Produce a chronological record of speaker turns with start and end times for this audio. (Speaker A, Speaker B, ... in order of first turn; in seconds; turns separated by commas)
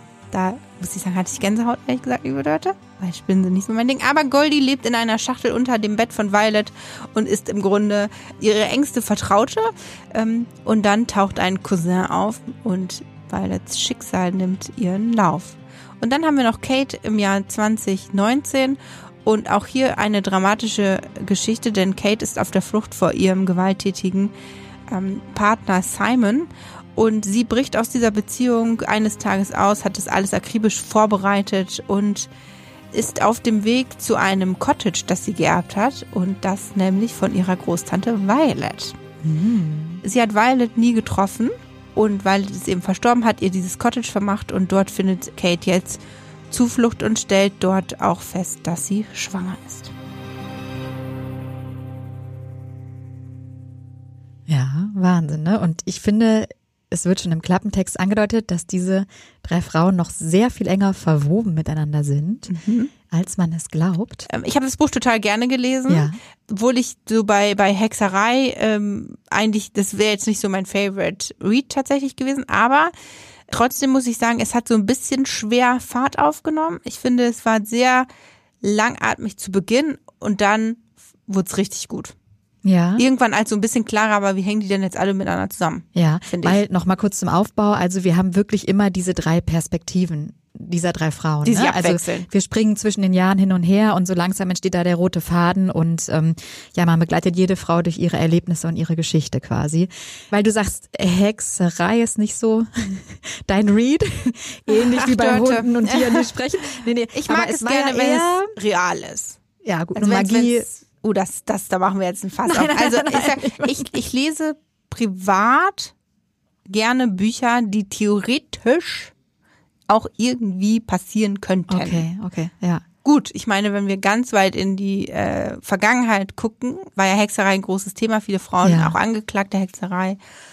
Speaker A: 0.3-24.3, Speaker A: 24.9-32.3, Speaker A: 32.9-39.0, Speaker B: 39.2-40.0, Speaker A: 40.0-49.9, Speaker B: 54.5-62.5, Speaker A: 62.5-62.9, Speaker B: 63.1-64.2, Speaker A: 64.3-72.9, Speaker B: 65.9-66.2, Speaker A: 73.5-78.1, Speaker A: 78.6-82.1, Speaker B: 82.6-83.0, Speaker A: 83.0-86.6, Speaker B: 85.9-108.5, Speaker A: 91.4-92.3, Speaker A: 104.7-106.3, Speaker A: 107.1-109.4, Speaker B: 109.6-110.7, Speaker A: 109.9-115.9, Speaker B: 112.5-113.8, Speaker A: 116.7-119.1, Speaker A: 119.9-122.0, Speaker B: 121.7-122.8, Speaker A: 123.0-130.2, Speaker B: 128.6-128.9